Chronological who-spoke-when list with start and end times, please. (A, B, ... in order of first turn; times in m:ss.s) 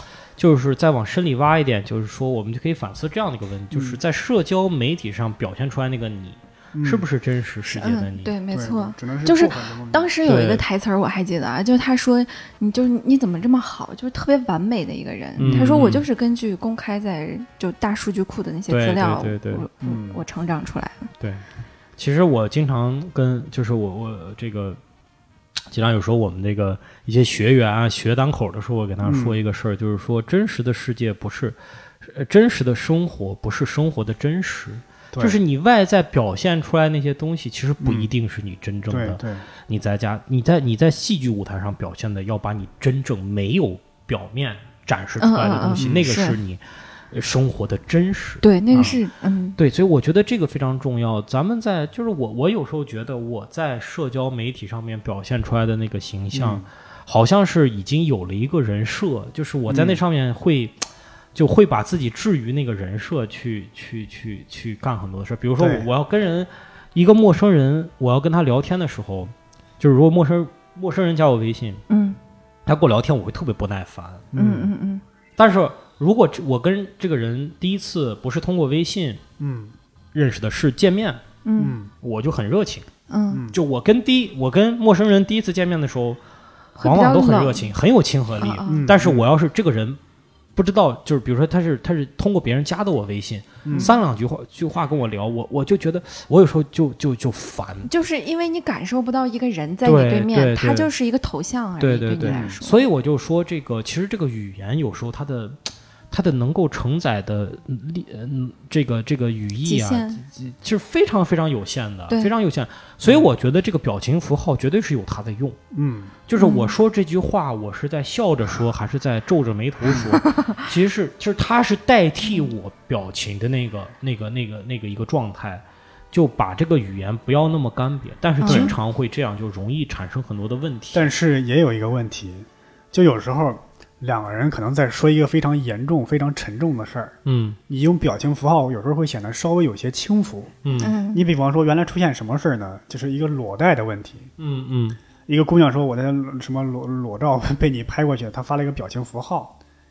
0:00.4-0:08.3 A
0:03.7-0:04.0 B
0:06.7-0:07.1 B
0:07.7-0:21.1 C
0:08.5-0:10.1 B
0:10.2-0:10.6 A
0:15.4-0:16.1 A
0:15.4-0:15.8 B
0:18.7-0:19.7 A
0:19.8-0:20.2 B
0:22.0-0:24.8 A
0:25.7-0:49.0 A
0:29.0-0:29.4 B
0:35.1-0:35.4 B
0:37.8-0:38.1 B
0:38.9-0:39.5 B
0:45.2-0:46.4 C
0:45.7-0:46.1 B
0:48.4-0:49.6 C
0:49.6-1:11.8 A
0:56.3-0:56.7 B
0:59.7-1:00.0 B
1:05.6-1:05.9 B
1:11.9-1:12.2 C
1:12.7-1:14.3 A
1:14.3-1:14.7 B
1:14.4-1:15.0 C
1:15.4-1:19.2 A
1:19.4-1:19.8 B
1:20.1-1:21.2 A
1:21.4-1:21.8 C
1:21.6-1:21.9 B
1:22.0-1:22.9 A
1:23.1-1:23.5 C
1:23.3-1:23.6 B
1:23.5-1:26.2 A
1:26.8-1:27.7 C
1:26.8-1:30.0 A
1:28.4-1:28.9 C
1:28.7-1:29.3 B
1:30.6-1:37.9 A
1:33.6-1:33.9 B
1:37.9-1:42.9 C
1:39.8-1:40.9 A
1:41.8-1:55.6 A
1:42.2-1:42.6 B
1:49.6-1:50.2 C
1:55.7-1:56.1 B
1:56.3-2:11.0 A
1:56.4-1:56.7 C
2:00.3-2:00.5 C
2:08.4-2:08.8 C
2:08.4-2:08.7 B
2:10.9-2:17.2 B
2:17.2-2:17.6 A
2:17.7-2:24.3 B
2:20.6-2:20.9 A
2:20.8-2:21.2 C
2:24.4-2:25.0 A
2:25.3-2:29.6 B